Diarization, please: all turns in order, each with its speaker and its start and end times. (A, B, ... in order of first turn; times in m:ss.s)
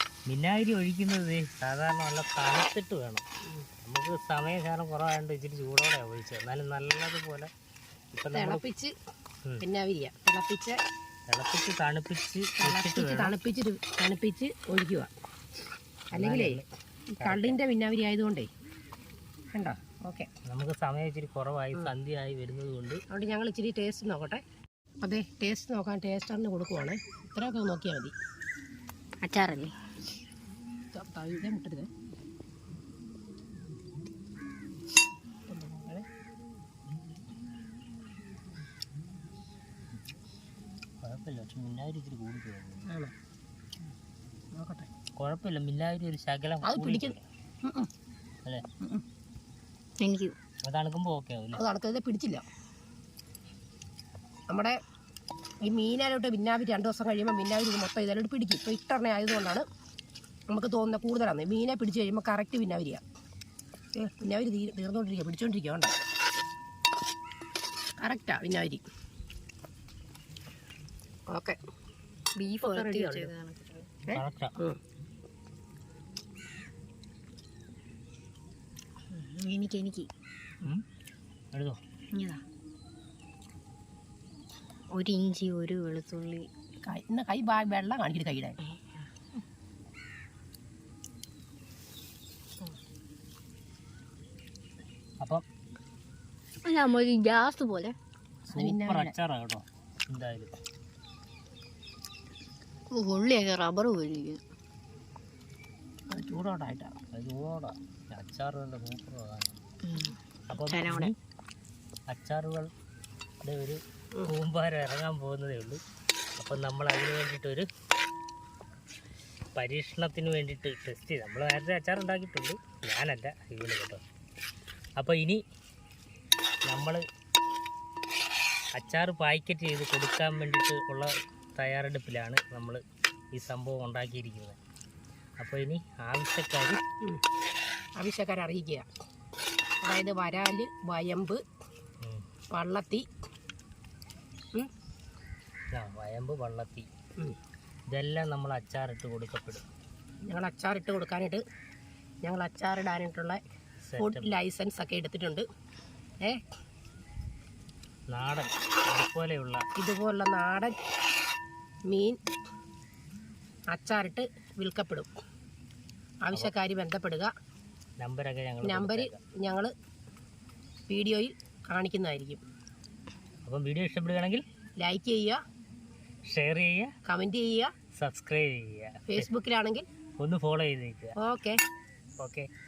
0:00.3-0:03.2 A
0:03.8-0:07.5 A
0:08.1-0:08.6 A
0:08.3-0:08.9 B
0:09.6-0:10.8 B
0:11.3-0:13.4 A
0:12.6-0:15.1 B
0:16.1-0:16.6 B
0:16.1-0:16.6 A
0:17.2-0:18.5 B
0:17.2-0:17.6 A
0:19.6-0:20.3 B
0:20.5-0:23.0 A
0:23.1-0:24.4 B
0:25.0-0:28.1 B
0:29.2-0:29.7 C
0:30.9-0:31.9 B
0:35.5-0:36.0 B
0:41.0-0:42.8 A
0:44.6-0:44.9 B
0:45.2-0:47.2 A
0:46.6-0:47.9 B
0:50.0-0:50.4 C
0:50.6-0:51.6 A
0:51.6-0:52.4 B
0:54.5-0:54.8 B
0:55.7-0:59.6 B
1:00.5-1:03.0 B
1:04.0-1:06.0 B
1:08.0-1:08.8 B
1:11.3-1:11.6 B
1:12.4-1:13.9 C
1:12.6-1:13.3 B
1:14.1-1:14.8 B
1:14.1-1:14.6 A
1:19.1-1:20.1 C
1:21.5-1:21.8 A
1:22.1-1:22.4 C
1:24.9-1:26.5 C
1:26.8-1:28.6 B
1:28.7-1:29.0 C
1:36.6-1:38.0 C
1:38.5-1:40.5 A
1:38.6-1:39.2 B
1:42.9-1:44.4 C
1:46.1-1:47.0 B
1:47.1-1:49.6 A
1:49.8-1:51.1 C
1:50.5-1:51.1 A
1:52.1-1:52.7 A
1:53.4-1:55.8 A
1:56.4-1:57.7 A
1:59.6-2:04.0 A
2:05.0-2:05.4 A
2:06.7-2:07.0 A
2:08.8-2:12.8 A
2:13.4-2:14.6 A
2:15.4-2:16.8 A
2:18.0-2:18.8 B
2:19.8-2:21.4 B
2:22.5-2:23.1 B
2:25.7-2:26.9 A
2:27.9-2:29.7 A
2:30.3-2:31.4 B
2:32.2-2:33.4 B
2:33.9-2:34.4 A
2:34.0-2:35.4 B
2:38.1-2:39.6 A
2:39.8-2:40.8 B
2:41.9-2:42.2 B
2:43.7-2:45.1 B
2:46.2-2:47.3 B
2:48.0-2:49.2 A
2:48.6-2:49.7 B
2:50.9-2:52.4 B
2:53.4-2:54.4 A
2:54.8-2:55.4 B
2:56.3-2:56.9 A
2:57.1-2:57.7 B
2:58.0-2:59.3 A
2:59.1-2:59.8 B
3:00.2-3:01.2 A
3:01.2-3:01.6 B
3:02.2-3:02.5 A